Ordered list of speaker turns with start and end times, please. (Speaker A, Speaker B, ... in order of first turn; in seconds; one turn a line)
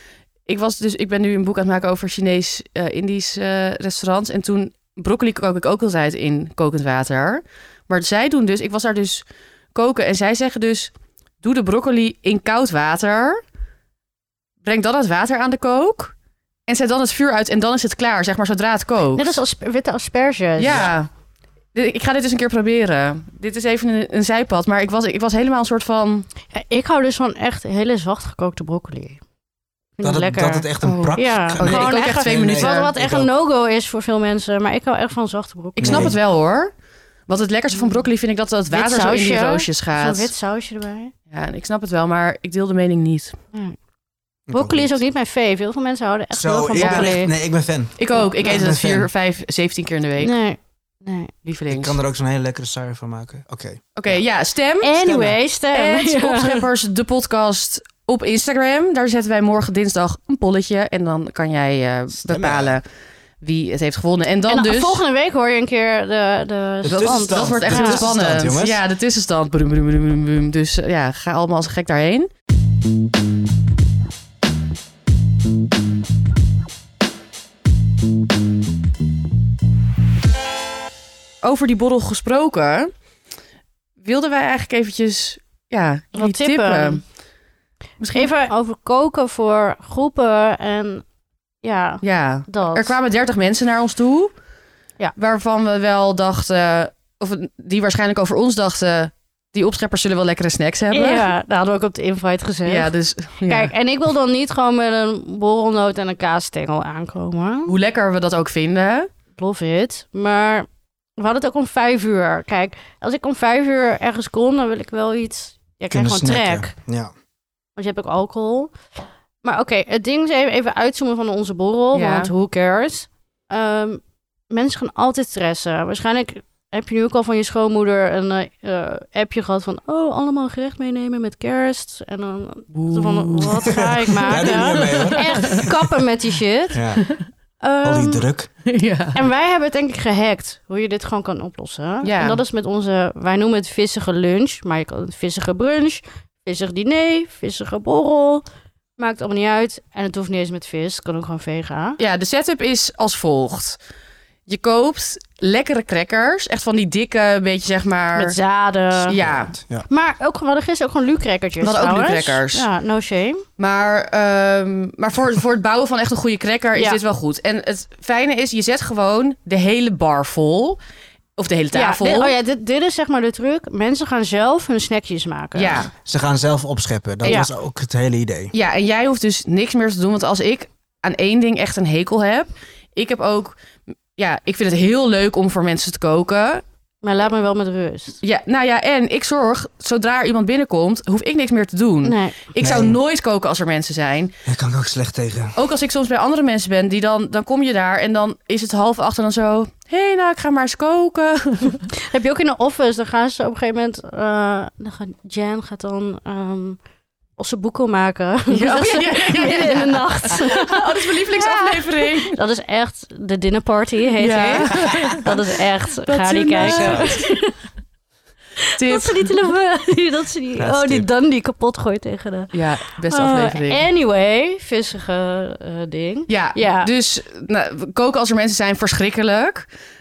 Speaker A: 0.5-13.4
Speaker A: 14.7-16.1
Speaker A: 16.7-19.3
Speaker B: 19.2-20.9
Speaker A: 20.6-21.1
Speaker A: 21.7-26.3
Speaker B: 26.5-29.2
Speaker B: 30.0-36.2
Speaker C: 30.0-33.3
Speaker A: 30.8-32.9
Speaker A: 35.8-36.7
Speaker C: 35.8-36.2
Speaker A: 37.3-40.3
Speaker B: 38.7-41.1
Speaker A: 41.3-43.4
Speaker C: 44.5-45.0
Speaker B: 44.5-47.3
Speaker C: 46.4-49.1
Speaker A: 46.8-47.1
Speaker A: 48.0-50.3
Speaker B: 50.2-51.3
Speaker A: 51.5-52.0
Speaker C: 51.7-54.2
Speaker A: 54.0-55.0
Speaker B: 54.8-56.7
Speaker C: 55.0-55.4
Speaker A: 55.7-62.8
Speaker C: 62.2-62.8
Speaker A: 63.4-65.0
Speaker B: 64.5-68.2
Speaker C: 66.8-68.8
Speaker A: 66.9-72.3
Speaker A: 81.4-82.9
Speaker A: 84.0-87.0
Speaker B: 86.2-87.0
Speaker A: 88.0-88.3
Speaker B: 88.1-91.0
Speaker B: 91.6-93.0
Speaker A: 92.0-94.3
Speaker A: 95.2-101.3
Speaker B: 100.9-102.9
Speaker A: 102.7-103.7
Speaker B: 103.5-107.8
Speaker A: 107.7-109.1
Speaker B: 109.4-116.7
Speaker C: 115.9-117.1
Speaker B: 117.8-118.7
Speaker B: 119.4-136.8
Speaker A: 121.9-122.3
Speaker A: 132.7-133.7
Speaker C: 133.7-135.7
Speaker A: 134.5-135.8
Speaker C: 136.7-137.1
Speaker B: 137.6-138.3
Speaker C: 137.8-138.5
Speaker A: 138.7-139.2
Speaker B: 139.2-148.4
Speaker A: 142.0-142.4
Speaker B: 149.0-152.0
Speaker A: 152.0-153.8
Speaker A: 154.5-158.4
Speaker B: 158.2-159.2
Speaker A: 159.0-159.5
Speaker C: 159.2-159.9
Speaker B: 159.9-163.4
Speaker A: 161.6-162.7
Speaker A: 163.6-170.8
Speaker B: 166.8-167.0
Speaker A: 171.4-172.4
Speaker B: 171.7-175.9
Speaker A: 175.6-175.9
Speaker C: 176.1-178.5
Speaker B: 177.2-177.5
Speaker A: 178.5-183.6
Speaker A: 184.2-186.6
Speaker B: 187.0-188.2
Speaker A: 188.2-194.4
Speaker B: 192.0-192.5
Speaker C: 192.6-193.0
Speaker C: 194.4-195.6
Speaker A: 195.6-201.9
Speaker B: 201.9-206.8
Speaker B: 207.4-217.5
Speaker A: 208.5-212.4
Speaker A: 214.2-217.4
Speaker C: 216.6-217.2
Speaker B: 218.6-226.9
Speaker A: 218.8-219.4
Speaker C: 220.6-221.1
Speaker A: 222.5-223.8
Speaker A: 226.3-229.7